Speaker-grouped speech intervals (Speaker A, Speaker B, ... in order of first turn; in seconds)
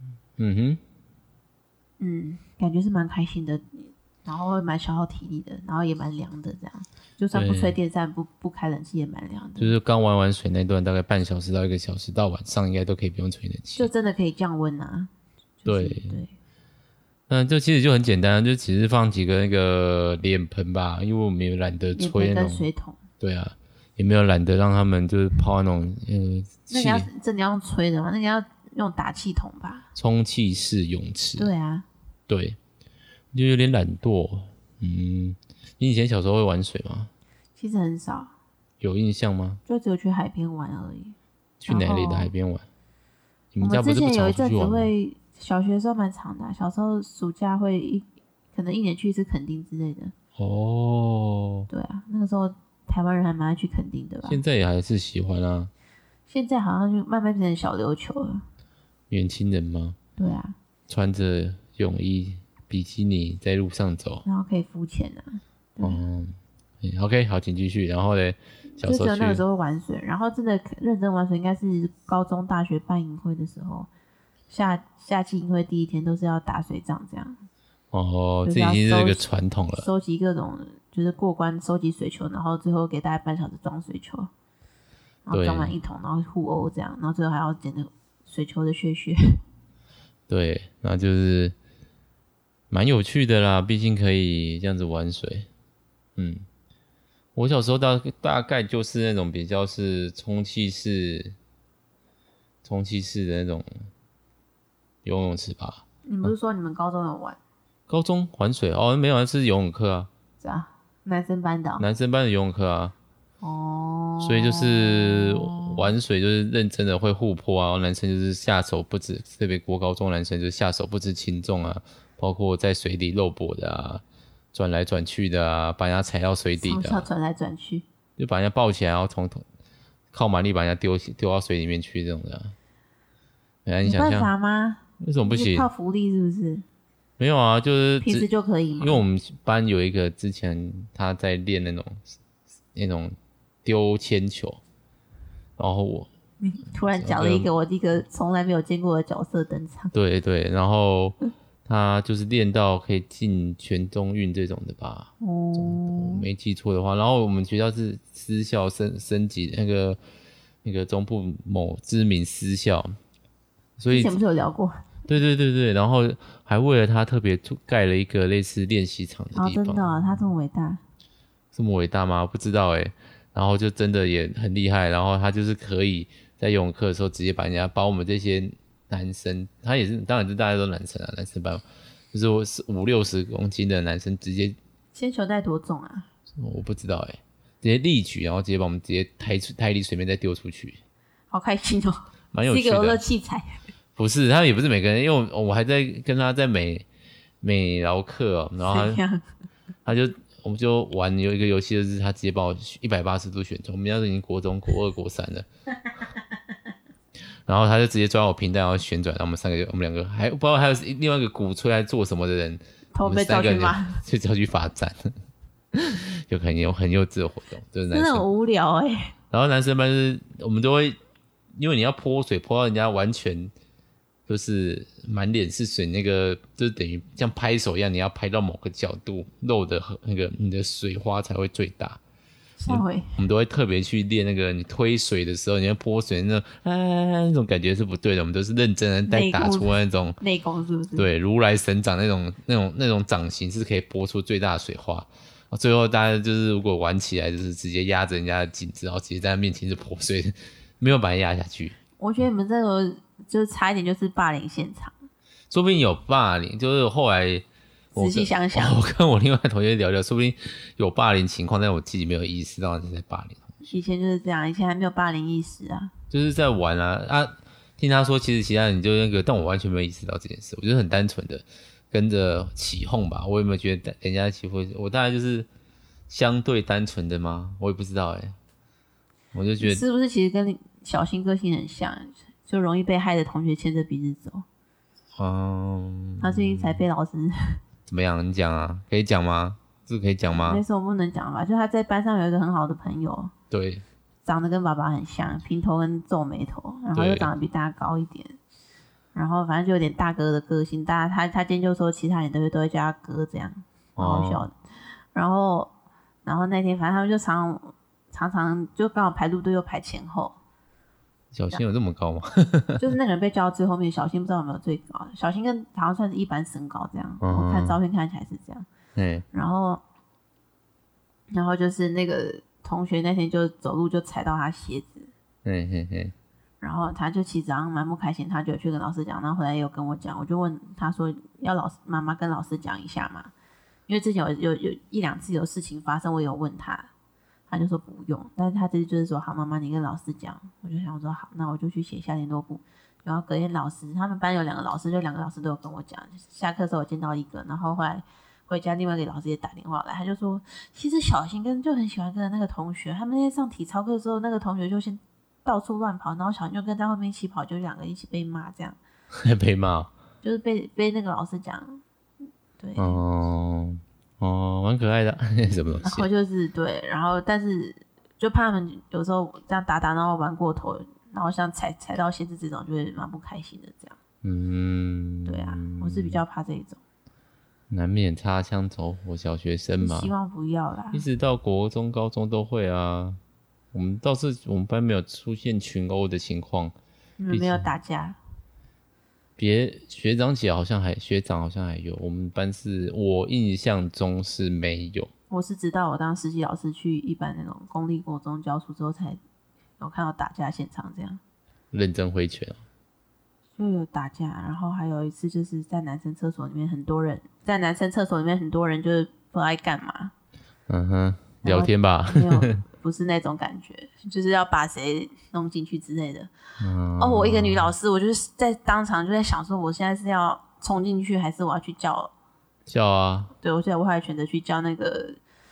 Speaker A: 0.4-0.8, 7.3-7.8, 9.6-13.9, 15.7-16.2, 17.3-22.7, 23.2-27.1, 29.9-31.5, 32.3-32.6, 33.3-37.1, 38.8-39.6, 41.6-42.7, 43.5-44.9, 50.4-51.7, 54.3-55.7, 59.1-60.0, 60.9-64.2, 65.8-69.4, 77.9-79.9, 85.3-85.7, 90.3-91.5, 92.7-95.5, 96.2-96.5, 97.3-101.4, 102.6-103.9, 105.0-106.3, 107.9-110.1, 111.8-113.0, 114.2-127.1, 128.2-129.4, 130.1-132.6, 133.7-134.3, 135.0-135.7, 137.2-138.3, 138.8-142.0, 142.8-144.6, 145.6-146.1, 146.9-147.5, 149.9-160.0, 160.6-162.9, 163.8-164.2, 165.1-170.0, 171.5-184.6, 186.4-190.8, 192.3-193.0, 194.0-196.9, 197.4-199.0, 199.8-205.5, 207.5-215.1, 215.7-218.2, 219.3-221.0, 221.6-223.5, 224.3-232.0, 232.7-240.2, 241.0-251.8, 255.5-263.6, 266.1-275.5, 276.1-278.4, 279.3-279.8, 285.2-286.8, 287.9-290.6, 293.5-293.9, 296.9-297.3, 304.0-304.5, 311.3-312.9, 317.2-317.8, 319.0-319.2, 325.4-326.1, 359.1-359.9, 362.8-366.1, 374.2-376.2, 377.7-380.1, 380.9-383.2, 383.7-386.8, 387.3-387.7, 389.4-395.1, 401.7-402.6, 410.7-412.6, 416.6-417.7, 422.7-423.3
Speaker B: 2.0-9.8, 13.8-16.3, 22.0-23.0, 26.7-29.9, 31.4-31.9, 37.6-38.3, 39.7-41.1, 41.7-42.3, 43.6-50.1, 51.7-54.4, 56.3-58.5, 60.2-60.5, 64.2-66.0, 68.8-73.9, 74.5-77.4, 78.5-79.2, 79.8-84.3, 85.3-89.4, 106.1-107.4, 110.4-111.8, 113.4-115.9, 126.6-127.8, 133.8-136.6, 138.0-139.0, 146.4-149.9, 155.2-156.3, 163.9-164.9, 169.3-170.8, 184.9-186.1, 191.3-193.6, 198.6-199.2, 212.9-214.0, 217.9-219.1, 232.6-233.1, 239.1-241.1, 252.0-254.9, 257.9-258.8, 263.7-265.9, 279.6-284.4, 286.2-287.6, 290.3-293.3, 294.2-298.4, 299.1-304.6, 305.1-305.7, 306.2-310.4, 312.8-318.7, 319.3-319.8, 321.3-325.1, 326.6-333.3, 333.9-336.9, 337.5-358.8, 360.2-361.8, 362.6-363.0, 365.8-374.0, 375.3-376.8, 379.8-381.0, 387.2-388.2, 395.3-399.2, 399.8-401.2, 403.6-410.1, 411.4-416.3, 417.0-422.1, 423.4-425.2